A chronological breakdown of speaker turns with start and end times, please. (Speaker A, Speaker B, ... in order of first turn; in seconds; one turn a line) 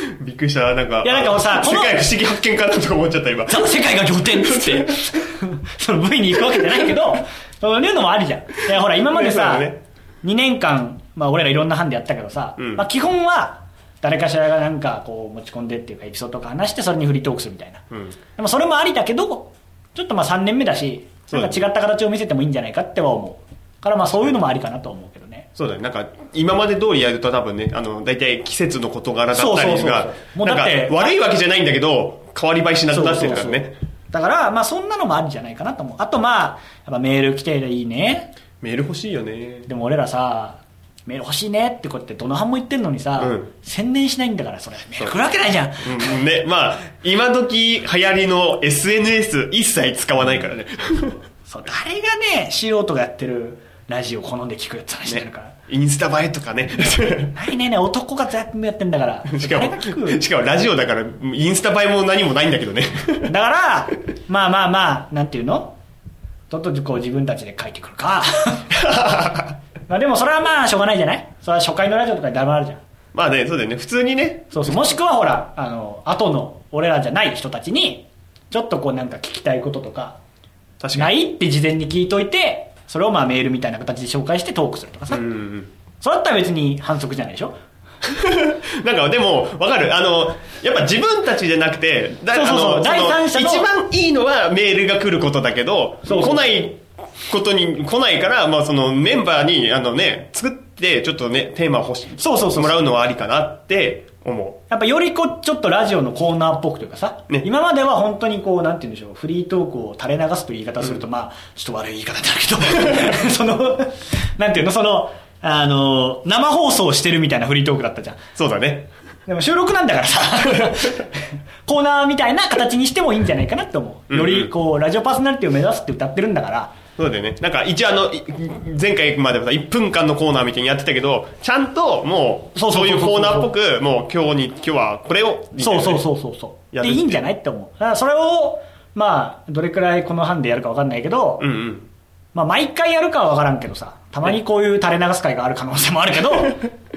Speaker A: 0.2-3.8
Speaker B: 1.0-2.0
Speaker B: 3.5-17.8
Speaker A: 4.4-5.0
Speaker A: 8.9-9.8
Speaker A: 12.6-12.8
Speaker A: 17.9-18.1
Speaker B: 18.3-25.5
Speaker A: 21.3-21.6
Speaker A: 25.6-33.7
Speaker B: 29.3-31.1
Speaker B: 32.9-38.3
Speaker A: 38.6-39.7
Speaker B: 39.6-46.1
Speaker A: 43.2-43.5
Speaker A: 45.8-51.2
Speaker B: 51.5-55.5
Speaker A: 55.0-57.4
Speaker B: 57.3-60.2
Speaker A: 59.3-63.3
Speaker B: 63.3-65.8
Speaker B: 66.5-68.7
Speaker A: 68.7-69.5
Speaker B: 69.9-72.8
Speaker A: 73.1-74.6
Speaker B: 74.5-80.2
Speaker A: 80.8-81.1
Speaker B: 80.9-85.3
Speaker A: 85.1-85.7
Speaker B: 86.0-87.5
Speaker A: 88.0-104.6
Speaker B: 92.3-93.7
Speaker B: 96.0-96.4
Speaker B: 102.2-102.8
Speaker B: 104.7-118.2
Speaker A: 118.3-118.9
Speaker B: 119.3-126.7
Speaker A: 124.1-124.5
Speaker A: 127.0-136.0
Speaker B: 132.5-133.5
Speaker B: 135.5-141.5
Speaker A: 136.7-137.2
Speaker A: 141.4-141.9
Speaker B: 142.3-146.6